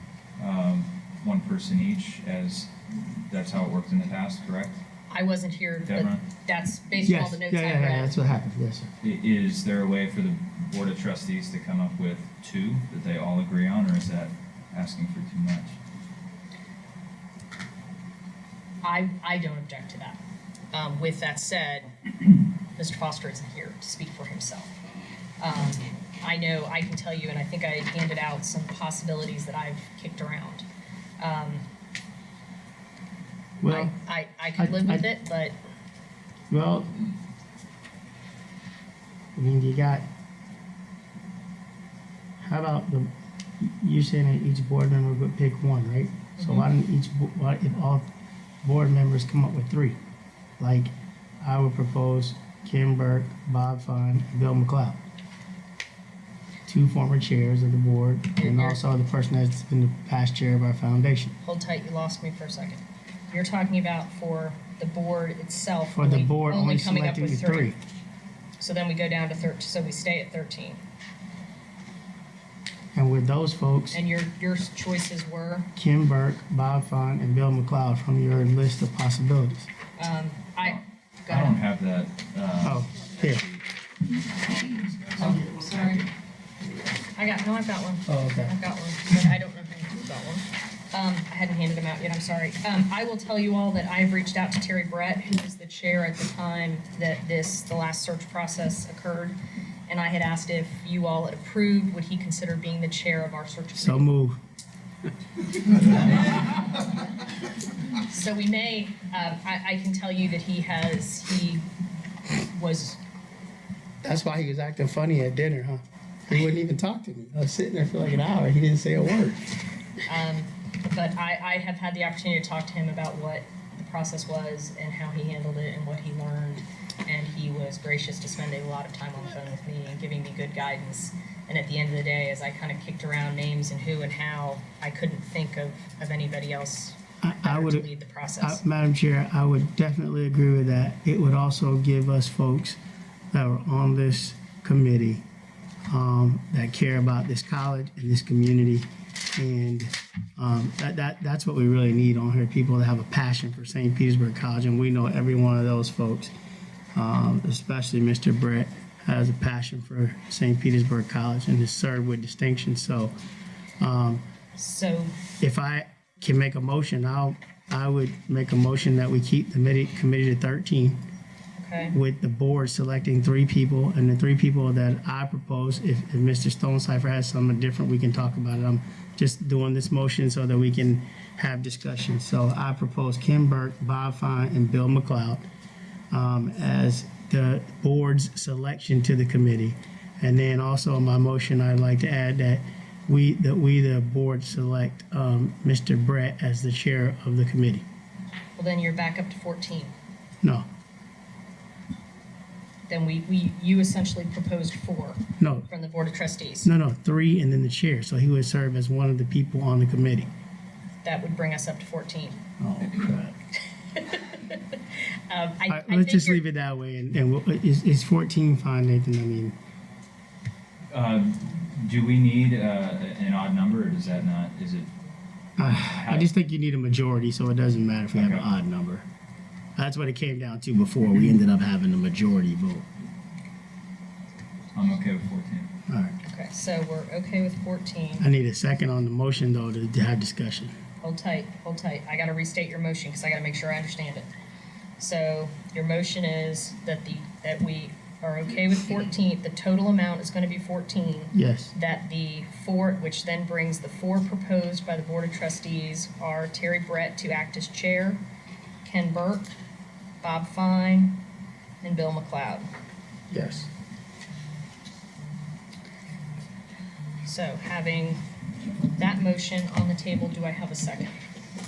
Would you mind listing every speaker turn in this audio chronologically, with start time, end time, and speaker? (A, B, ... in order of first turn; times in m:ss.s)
0:00.4-0:04.8 A
0:05.1-0:08.2 B
0:05.9-0:06.2 A
0:07.0-0:08.9 C
0:09.0-0:15.8 A
0:18.8-0:20.2 B
0:20.7-0:24.7 B
0:25.4-0:30.6 B
0:31.2-0:31.6 B
0:33.6-0:33.9 C
0:33.6-0:35.6 B
0:34.6-0:35.0 C
0:36.5-0:36.9 C
0:39.3-0:40.0 C
0:42.4-0:48.1 C
0:46.4-0:46.6 B
0:48.6-0:50.0 C
0:50.6-0:55.0 C
0:56.6-1:01.3 C
0:58.4-0:58.8 B
1:01.4-1:02.8 B
1:03.3-1:07.7 B
1:05.9-1:07.8 C
1:08.6-1:10.8 B
1:12.9-1:14.0 C
1:13.9-1:15.7 B
1:15.8-1:19.7 C
1:20.0-1:21.6 B
1:20.6-1:23.6 A
1:22.6-1:23.4 C
1:24.2-1:26.0 A
1:25.2-1:26.1 B
1:27.2-1:44.1 B
1:28.1-1:28.5 C
1:43.7-1:44.4 C
1:46.1-1:46.5 B
1:48.0-1:51.6 B
1:52.3-1:53.0 B
1:54.0-1:59.5 C
2:00.0-2:18.6 B
2:17.2-2:17.9 C
2:18.4-2:22.8 C
2:23.3-2:25.2 C
2:25.9-2:36.3 C
2:36.9-2:43.1 C
2:43.8-2:44.2 C
2:44.6-2:45.1 B
2:45.4-2:51.0 C
2:51.6-2:51.9 B
2:51.9-3:05.4 C
3:06.1-3:17.8 C
3:18.6-3:19.9 B
3:22.9-3:26.7 B
3:25.4-3:25.6 C
3:26.6-3:30.3 C
3:31.0-3:32.4 B
3:32.6-3:33.3 C
3:33.7-3:36.4 B
3:35.7-3:39.5 C
3:40.9-3:44.9 A
3:45.6-3:49.0 C
3:45.6-3:46.3 A
3:48.1-3:48.5 A
3:49.8-3:52.8 C
3:54.7-3:55.7 A
3:55.9-3:56.2 C
3:56.2-3:58.2 B
3:58.2-4:00.7 C
4:01.0-4:04.3 B
4:05.0-4:18.2 B
4:11.3-4:11.7 C
4:18.8-4:19.5 B
4:20.2-4:21.2 B
4:21.8-4:22.6 B
4:23.3-4:23.7 C
4:27.2-4:28.2 B
4:29.0-4:31.2 B